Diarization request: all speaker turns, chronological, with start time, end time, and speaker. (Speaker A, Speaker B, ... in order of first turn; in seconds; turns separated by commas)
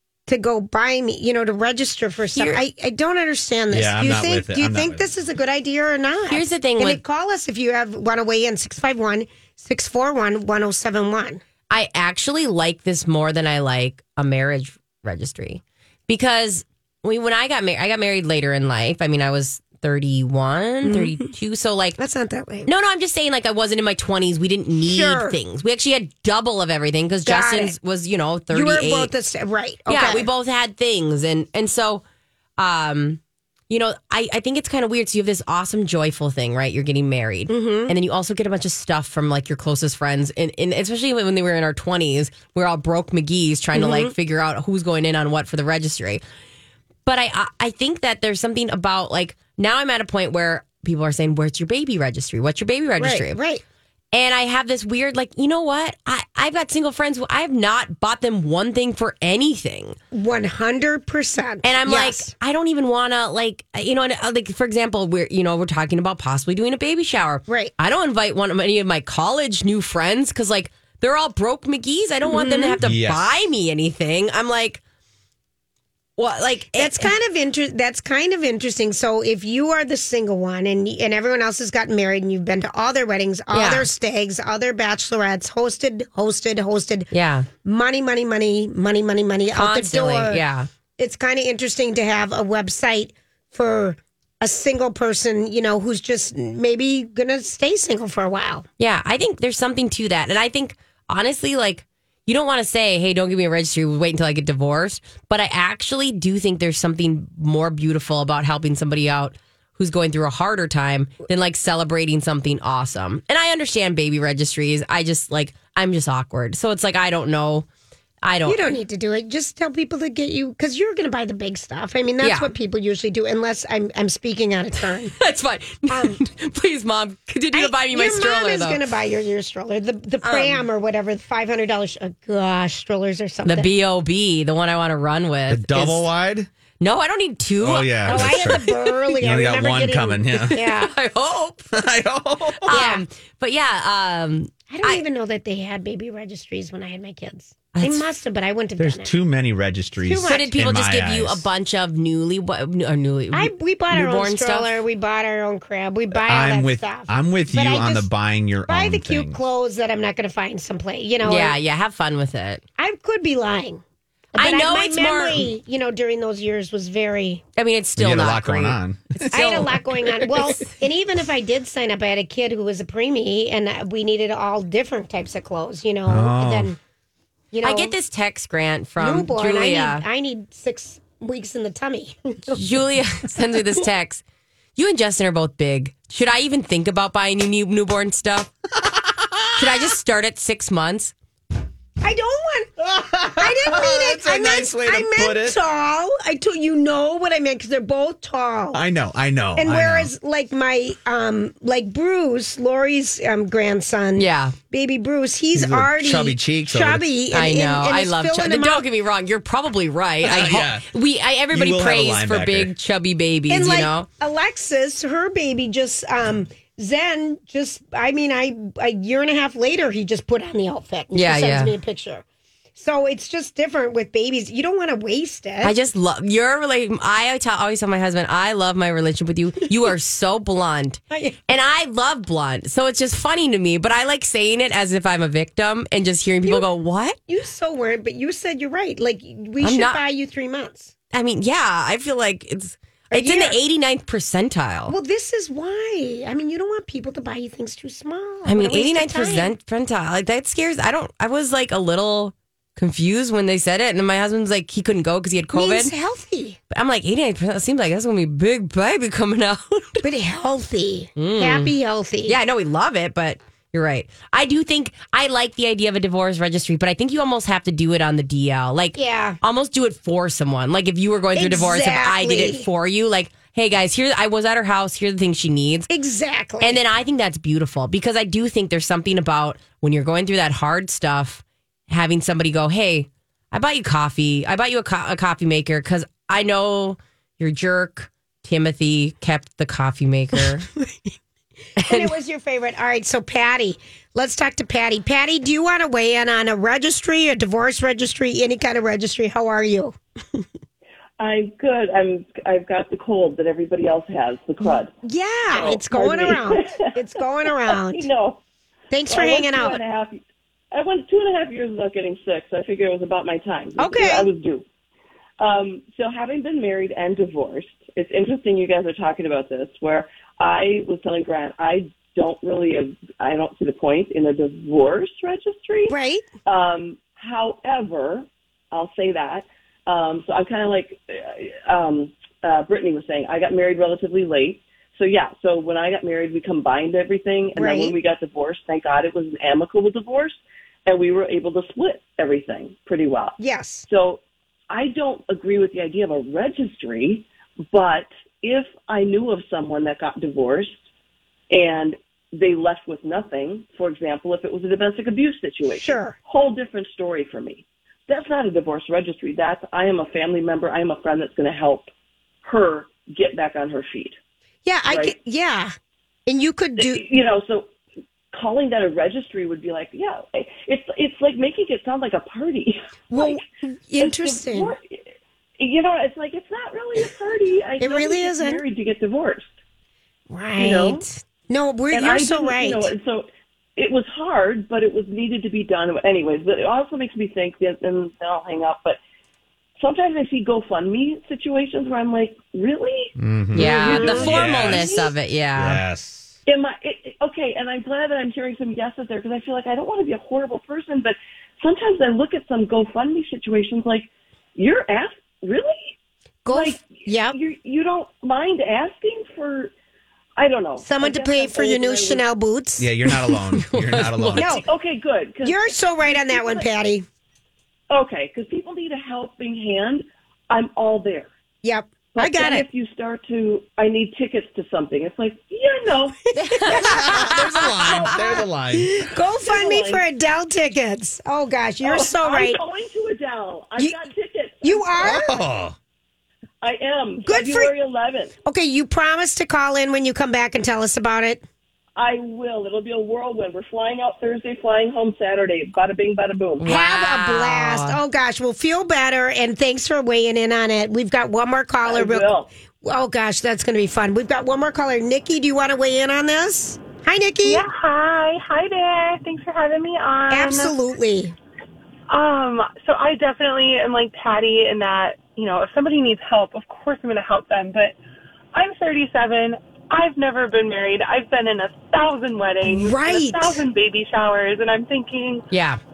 Speaker A: 0.3-11.4, Speaker B: 2.3-2.6, Speaker C: 3.7-5.2, Speaker B: 6.3-7.0, Speaker B: 11.7-22.0, Speaker A: 20.8-21.2, Speaker A: 22.0-22.7, Speaker B: 22.6-29.1, Speaker A: 24.8-25.4, Speaker A: 27.2-27.7, Speaker A: 28.5-30.3, Speaker B: 29.9-32.0, Speaker B: 32.6-46.2, Speaker A: 37.5-38.0, Speaker A: 43.7-44.1, Speaker B: 47.0-53.4, Speaker A: 53.0-53.6, Speaker B: 54.1-60.0, Speaker A: 60.1-62.3, Speaker B: 61.6-74.8, Speaker A: 67.5-67.7, Speaker A: 72.2-72.8, Speaker C: 72.8-73.3, Speaker B: 76.2-77.1, Speaker A: 76.7-87.1, Speaker B: 83.5-83.9, Speaker B: 87.1-87.5, Speaker A: 87.6-90.4, Speaker B: 89.5-90.7, Speaker A: 91.0-98.7, Speaker B: 98.8-117.7, Speaker B: 118.2-118.7, Speaker A: 118.4-125.1, Speaker B: 122.2-122.5, Speaker B: 125.1-128.8, Speaker A: 125.9-126.2, Speaker A: 127.5-133.7, Speaker B: 130.2-130.6, Speaker B: 133.4-136.1, Speaker C: 135.5-136.5, Speaker B: 136.8-138.6, Speaker C: 137.6-140.6, Speaker A: 138.0-140.9, Speaker B: 140.4-141.7, Speaker C: 141.7-142.8, Speaker B: 142.7-145.0, Speaker A: 142.7-143.0, Speaker A: 144.7-149.1, Speaker B: 147.7-148.1, Speaker C: 148.8-151.5, Speaker A: 150.0-150.6, Speaker B: 150.2-154.7, Speaker A: 153.3-158.1, Speaker C: 156.2-159.4, Speaker A: 158.7-161.6, Speaker B: 161.2-162.6, Speaker A: 162.8-163.8, Speaker A: 164.3-167.4, Speaker B: 164.3-165.5, Speaker B: 167.6-169.8, Speaker C: 167.9-169.7, Speaker A: 169.3-176.8, Speaker C: 176.1-176.7, Speaker A: 177.5-177.9, Speaker B: 177.6-180.0, Speaker A: 179.0-182.6, Speaker B: 182.5-184.2, Speaker B: 184.8-188.5, Speaker C: 189.2-189.7, Speaker B: 189.6-191.1, Speaker A: 192.0-192.7, Speaker C: 192.8-195.6, Speaker A: 193.4-198.8, Speaker C: 198.7-200.1, Speaker A: 199.6-208.9, Speaker B: 204.2-204.5, Speaker C: 205.5-207.0, Speaker B: 207.3-214.1, Speaker C: 210.2-210.8, Speaker C: 211.5-212.7, Speaker A: 213.5-222.2, Speaker B: 221.1-221.7, Speaker A: 222.7-225.8, Speaker B: 225.6-237.2, Speaker A: 231.1-231.4, Speaker A: 237.3-240.9, Speaker B: 239.6-240.0, Speaker B: 241.1-244.9, Speaker A: 243.1-243.6, Speaker A: 244.9-249.5, Speaker B: 248.4-255.9, Speaker A: 255.5-256.6, Speaker B: 256.7-260.0, Speaker A: 260.0-262.4, Speaker B: 261.1-261.7, Speaker B: 262.2-275.9, Speaker A: 268.9-269.4, Speaker A: 271.3-272.7, Speaker A: 275.9-276.8, Speaker B: 276.6-290.7, Speaker A: 290.4-290.9, Speaker B: 291.8-292.1, Speaker A: 291.9-300.4, Speaker D: 301.2-304.9, Speaker A: 304.6-308.1, Speaker D: 305.5-306.8, Speaker D: 307.7-308.4, Speaker A: 308.9-309.8, Speaker D: 309.1-314.6, Speaker A: 313.8-314.3, Speaker D: 315.4-325.9, Speaker A: 325.9-326.2, Speaker D: 326.4-350.7, Speaker A: 337.5-337.9, Speaker A: 343.4-343.9, Speaker D: 351.5-361.9, Speaker A: 355.7-356.1, Speaker D: 362.4-364.2, Speaker A: 364.6-365.7, Speaker D: 364.9-365.1, Speaker A: 366.3-367.0, Speaker D: 366.8-367.7, Speaker D: 368.3-373.4, Speaker A: 373.1-374.7, Speaker D: 374.0-375.1, Speaker D: 375.6-379.5, Speaker A: 377.8-378.6, Speaker A: 380.3-382.9, Speaker D: 380.6-381.1, Speaker D: 381.9-389.0, Speaker D: 389.8-393.1, Speaker C: 393.2-395.0, Speaker B: 393.5-395.8, Speaker D: 393.6-395.1, Speaker C: 395.5-396.3, Speaker D: 396.5-405.9, Speaker A: 406.4-407.4, Speaker D: 406.5-409.7, Speaker D: 410.4-412.2, Speaker A: 410.8-412.9, Speaker C: 412.8-414.6, Speaker B: 413.1-414.6, Speaker A: 414.3-414.7, Speaker D: 414.6-416.7, Speaker A: 415.4-417.1, Speaker D: 417.9-421.3, Speaker A: 421.6-422.7, Speaker D: 422.1-426.3, Speaker B: 426.4-428.1, Speaker A: 426.4-427.2, Speaker C: 426.8-429.0, Speaker D: 428.0-428.4, Speaker A: 428.7-432.6, Speaker D: 429.4-430.0, Speaker D: 431.8-434.9, Speaker A: 433.8-434.1, Speaker A: 434.6-435.4, Speaker C: 435.0-435.8, Speaker D: 436.6-438.3, Speaker A: 437.2-437.7, Speaker A: 438.4-441.4, Speaker D: 441.9-446.7, Speaker B: 446.6-448.0, Speaker A: 446.6-452.3, Speaker D: 451.9-452.5, Speaker A: 452.8-457.6, Speaker E: 457.4-460.7, Speaker A: 460.3-461.3, Speaker E: 462.1-467.9, Speaker E: 468.5-475.4, Speaker A: 472.6-473.6, Speaker B: 475.5-475.8